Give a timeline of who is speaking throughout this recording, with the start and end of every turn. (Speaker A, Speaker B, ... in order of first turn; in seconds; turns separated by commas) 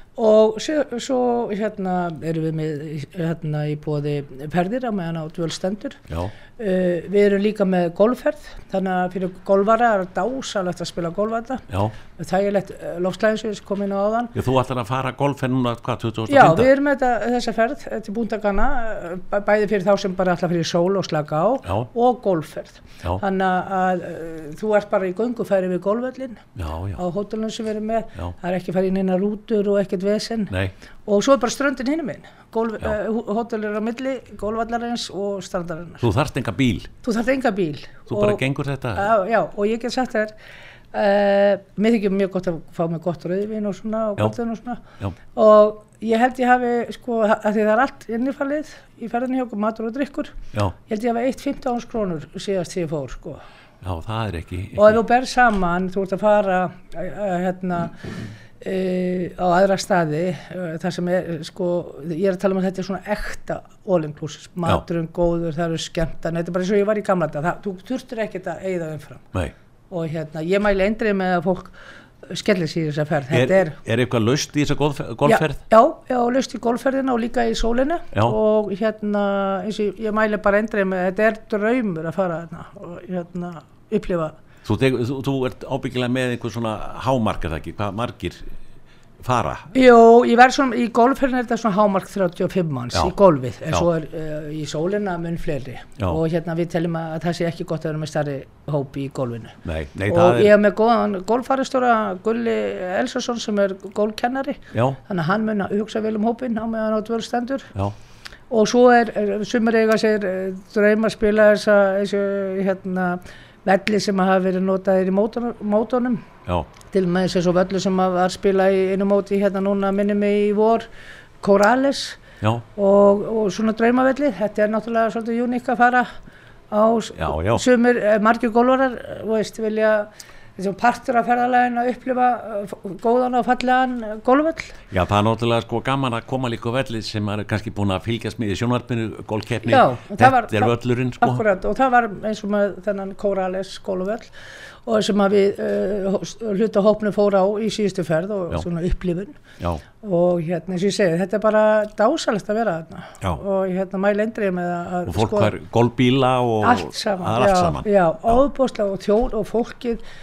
Speaker A: 0.1-6.0, Speaker A: 6.6-14.3, Speaker B: 11.7-11.9, Speaker B: 14.3-16.7, Speaker A: 16.3-30.5, Speaker B: 26.6-27.0, Speaker A: 31.1-36.0, Speaker B: 36.0-36.9, Speaker A: 37.0-38.4, Speaker B: 38.1-39.1, Speaker A: 38.9-40.3, Speaker A: 40.9-44.8, Speaker A: 45.3-53.4, Speaker B: 53.8-55.0, Speaker A: 54.8-69.2, Speaker A: 69.9-73.8, Speaker B: 73.3-75.6, Speaker A: 75.2-84.4, Speaker B: 84.6-88.4, Speaker B: 89.2-89.7, Speaker A: 89.7-107.7, Speaker B: 99.6-100.5, Speaker B: 104.7-105.0, Speaker A: 108.5-116.2, Speaker A: 116.9-120.8, Speaker A: 121.4-122.2, Speaker A: 122.8-126.1, Speaker A: 126.7-134.8, Speaker B: 127.2-127.6, Speaker B: 134.9-141.4, Speaker A: 139.6-144.3, Speaker A: 144.8-149.4, Speaker A: 150.0-155.5, Speaker B: 155.1-158.4, Speaker A: 156.6-160.0